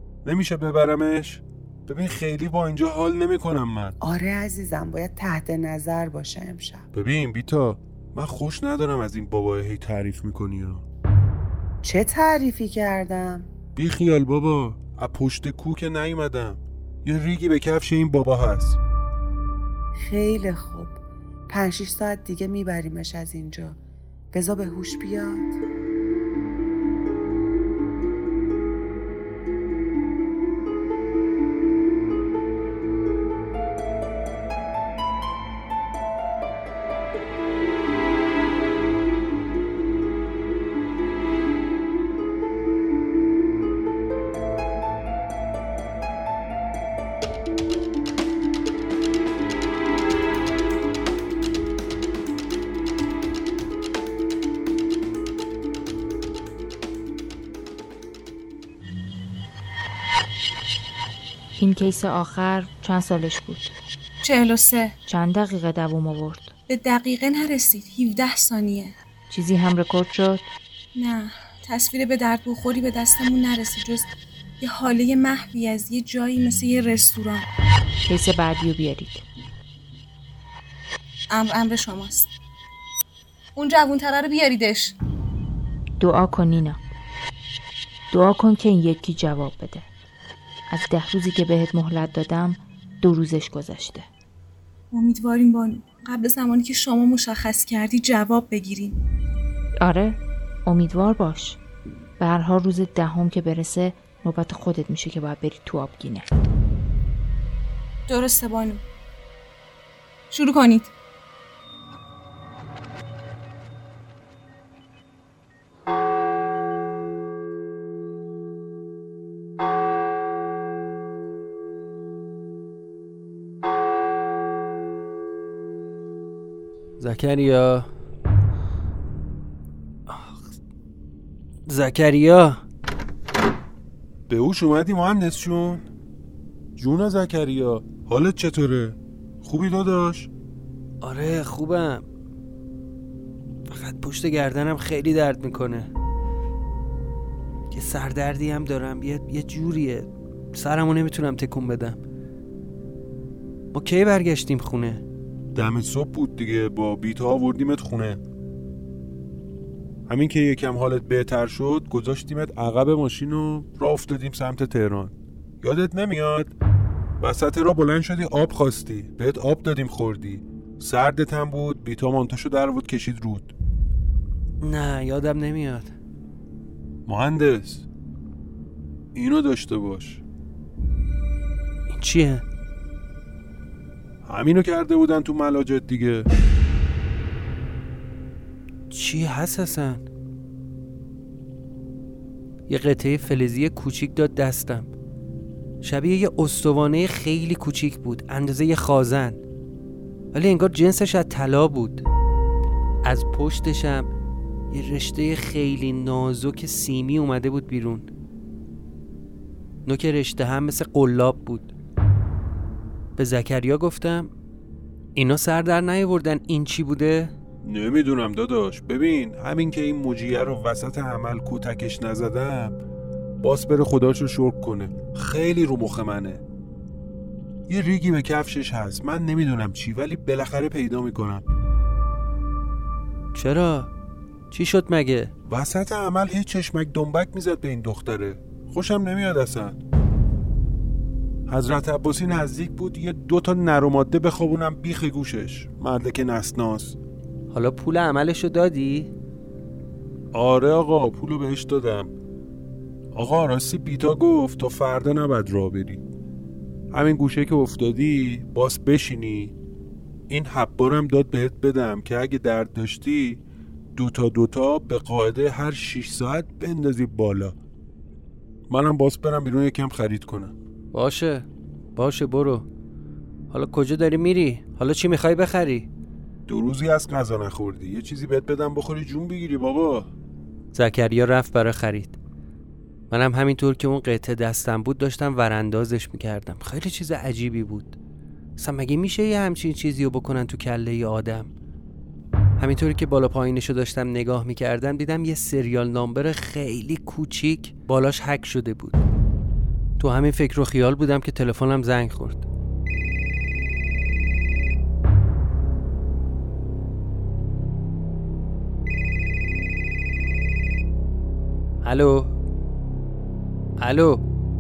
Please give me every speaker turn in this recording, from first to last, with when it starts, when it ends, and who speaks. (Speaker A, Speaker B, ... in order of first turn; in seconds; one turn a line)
Speaker A: 0.2-4.0
Speaker B: 4.0-6.8
Speaker A: 6.9-10.8
Speaker B: 11.8-13.5
Speaker A: 13.8-18.8
Speaker B: 19.9-23.8
Speaker B: 24.3-25.6
Speaker C: 61.6-63.7
Speaker D: 64.2-65.0
Speaker C: 65.0-66.5
Speaker D: 66.7-68.9
Speaker C: 69.3-70.5
Speaker D: 71.0-77.5
Speaker C: 78.1-79.2
Speaker D: 81.3-82.3
Speaker D: 83.5-84.9
Speaker C: 86.0-86.8
Speaker C: 88.1-89.9
Speaker C: 90.7-94.1
Speaker D: 94.9-99.0
Speaker C: 99.8-101.6
Speaker C: 102.2-106.3
Speaker D: 108.1-108.8
Speaker D: 110.3-110.9
Speaker E: 127.0-127.9
Speaker E: 130.1-130.4
Speaker E: 131.7-132.6
Speaker A: 134.3-135.8
Speaker A: 136.8-140.3
Speaker E: 141.0-142.0
Speaker E: 143.7-145.9
Speaker E: 147.7-152.0
Speaker E: 153.7-155.0
Speaker A: 155.5-158.2
Speaker A: 160.1-166.5
Speaker A: 167.2-173.5
Speaker E: 174.6-175.9
Speaker A: 177.1-177.8
Speaker A: 179.1-180.2
Speaker E: 181.9-182.4
Speaker A: 184.2-186.3
Speaker E: 188.9-190.0
Speaker E: 192.7-194.9
Speaker E: 195.8-199.4
Speaker E: 200.3-202.1
Speaker E: 203.1-204.1
Speaker E: 204.7-208.1
Speaker E: 209.9-211.7
Speaker E: 213.2-214.3
Speaker E: 215.1-217.3
Speaker A: 217.6-222.8
Speaker A: 223.4-226.4
Speaker A: 227.7-231.4
Speaker E: 233.3-233.9
Speaker E: 234.5-235.3
Speaker A: 235.5-239.8
Speaker A: 241.5-247.0
Speaker E: 247.5-249.1
Speaker A: 250.3-252.1
Speaker A: 253.1-256.0
Speaker A: 256.9-259.6
Speaker A: 260.3-263.4
Speaker A: 263.9-267.6
Speaker A: 268.7-270.5
Speaker E: 270.9-272.6
Speaker E: 273.5-275.9
Speaker A: 276.5-280.1
Speaker E: 280.7-282.2
Speaker E: 283.1-288.0
Speaker E: 288.6-291.5
Speaker E: 292.6-299.0
Speaker E: 300.0-302.4
Speaker E: 311.8-312.3
Speaker E: 313.8-314.2